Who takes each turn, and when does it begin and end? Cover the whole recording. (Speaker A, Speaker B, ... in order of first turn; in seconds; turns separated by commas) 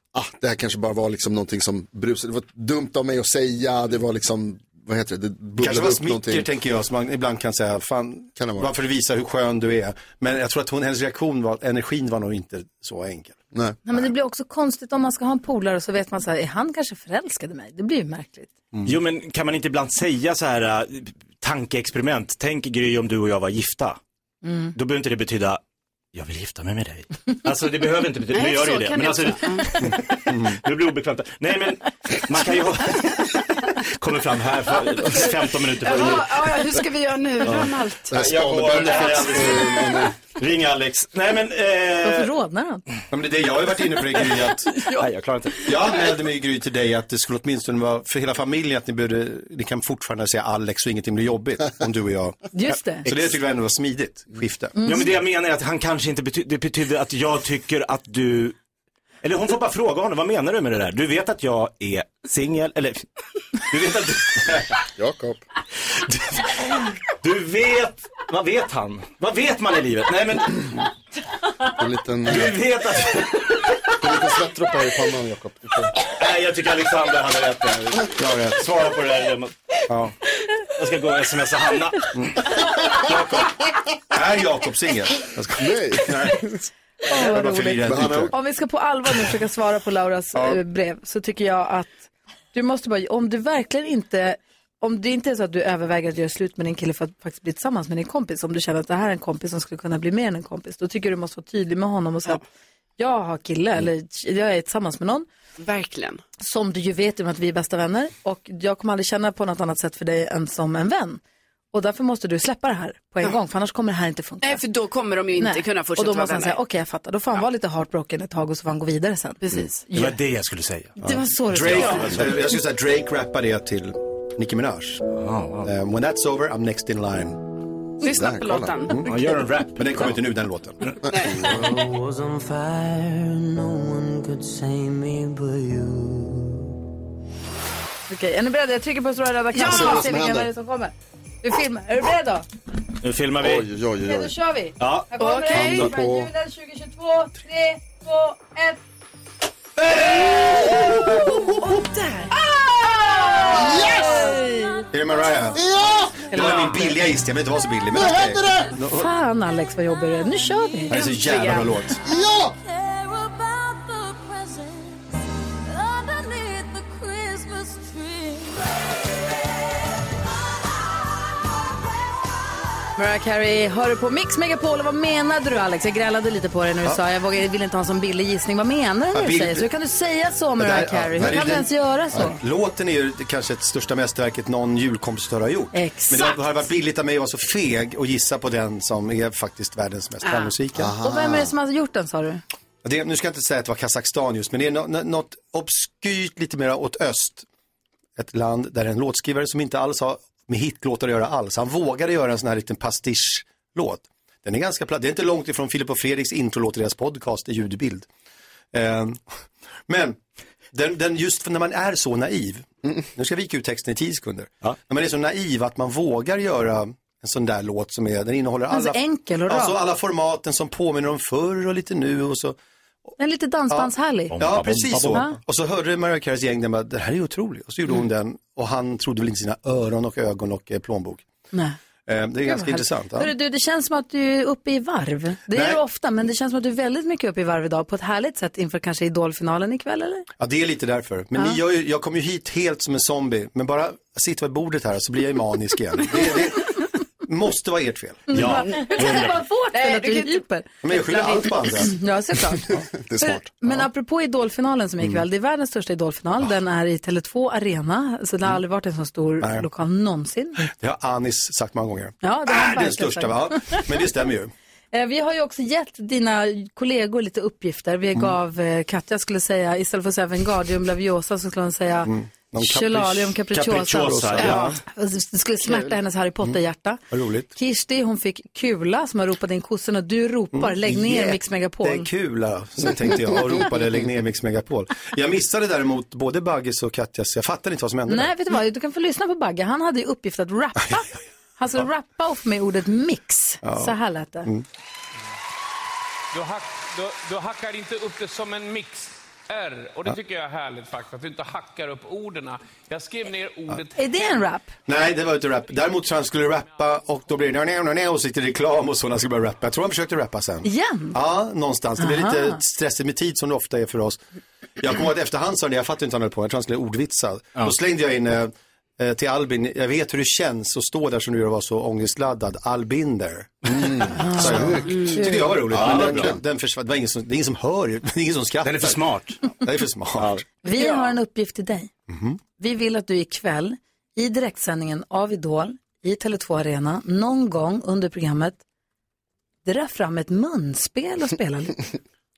Speaker A: 0.1-6.5, Speaker B: 5.6-13.4, Speaker A: 8.4-8.7, Speaker A: 13.5-13.8, Speaker C: 13.9-18.5, Speaker D: 18.9-24.0, Speaker C: 24.4-24.7, Speaker D: 24.8-25.6, Speaker D: 26.1-36.5, Speaker E: 28.3-29.9, Speaker E: 35.8-38.2, Speaker D: 37.4-42.3, Speaker A: 38.1-40.2, Speaker C: 42.0-42.8, Speaker B: 43.1-44.8, Speaker D: 44.9-45.7, Speaker B: 45.6-54.9, Speaker C: 52.5-53.1, Speaker D: 53.1-53.4, Speaker C: 54.8-55.1, Speaker D: 54.8-58.6, Speaker D: 59.2-63.1, Speaker D: 63.6-64.7, Speaker A: 65.0-65.4, Speaker D: 66.4-70.8, Speaker A: 71.8-72.6, Speaker D: 72.3-73.8, Speaker A: 74.0-76.0, Speaker D: 76.0-80.1, Speaker B: 78.2-78.6, Speaker D: 80.8-82.1, Speaker B: 82.2-83.5, Speaker B: 84.1-86.4, Speaker A: 85.6-86.6, Speaker C: 87.1-102.4, Speaker B: 87.1-88.3, Speaker A: 87.8-88.3, Speaker C: 103.0-105.3, Speaker E: 105.6-106.2, Speaker C: 106.4-111.2, Speaker C: 111.7-114.6, Speaker E: 114.4-116.6, Speaker C: 115.4-120.2, Speaker E: 119.4-119.8, Speaker D: 119.9-122.5, Speaker C: 121.0-122.2, Speaker B: 121.0-125.0, Speaker D: 125.1-125.7, Speaker B: 125.6-127.4, Speaker E: 128.0-129.4, Speaker A: 128.1-128.8, Speaker D: 129.0-130.2, Speaker B: 129.7-130.9, Speaker A: 131.1-131.9, Speaker E: 131.1-131.5, Speaker F: 131.8-136.6, Speaker C: 138.1-142.4, Speaker E: 139.5-140.0, Speaker A: 139.6-140.5, Speaker D: 143.0-143.7, Speaker A: 143.4-144.3, Speaker C: 144.0-148.8, Speaker D: 144.8-145.1, Speaker E: 145.2-145.9, Speaker A: 145.5-146.3, Speaker C: 150.0-152.3, Speaker E: 152.9-153.8, Speaker A: 152.9-154.2, Speaker C: 153.1-154.9, Speaker B: 154.9-155.6, Speaker A: 155.5-156.2, Speaker C: 156.3-157.0, Speaker B: 156.3-159.1, Speaker E: 156.4-156.7, Speaker A: 157.9-158.7, Speaker C: 158.9-161.5, Speaker B: 160.9-162.0, Speaker E: 160.9-161.7, Speaker A: 162.0-162.6, Speaker C: 173.0-182.4, Speaker B: 179.1-179.7, Speaker B: 180.6-190.9, Speaker A: 181.2-181.5, Speaker C: 185.7-186.4, Speaker E: 190.2-190.6, Speaker A: 190.8-191.5, Speaker C: 191.0-192.4, Speaker B: 192.8-197.5, Speaker B: 198.2-208.1, Speaker B: 208.7-209.2, Speaker B: 209.9-210.2, Speaker B: 210.7-222.6, Speaker C: 218.7-219.8, Speaker C: 223.2-224.4, Speaker B: 223.7-231.2, Speaker D: 224.3-225.4, Speaker C: 225.0-225.4, Speaker B: 232.1-233.3, Speaker C: 232.4-240.3, Speaker B: 235.5-235.8, Speaker B: 240.4-248.5, Speaker C: 241.3-241.6, Speaker C: 248.3-250.7, Speaker D: 248.3-249.4, Speaker E: 248.8-249.2, Speaker E: 249.7-251.9, Speaker B: 250.8-252.0, Speaker C: 251.7-260.6, Speaker A: 252.9-253.5, Speaker B: 259.4-259.7, Speaker B: 260.6-264.5, Speaker C: 262.2-263.9, Speaker C: 264.9-277.0, Speaker B: 272.1-274.8, Speaker D: 273.5-274.8, Speaker E: 274.4-274.6, Speaker B: 277.1-277.5, Speaker C: 277.6-282.1, Speaker B: 280.5-288.3, Speaker C: 288.1-294.5, Speaker B: 293.6-294.6, Speaker G: 296.3-304.4, Speaker C: 304.0-304.7, Speaker B: 304.9-314.2, Speaker C: 310.6-311.2, Speaker C: 312.0-312.6, Speaker B: 314.8-330.4, Speaker A: 323.8-325.1, Speaker C: 324.1-325.6, Speaker E: 324.9-325.3, Speaker D: 325.7-326.4, Speaker A: 325.7-326.4, Speaker D: 328.6-329.4, Speaker D: 330.2-330.4, Speaker C: 330.6-331.9, Speaker E: 330.7-331.1, Speaker B: 332.1-332.4, Speaker C: 332.6-338.6, Speaker C: 339.7-341.8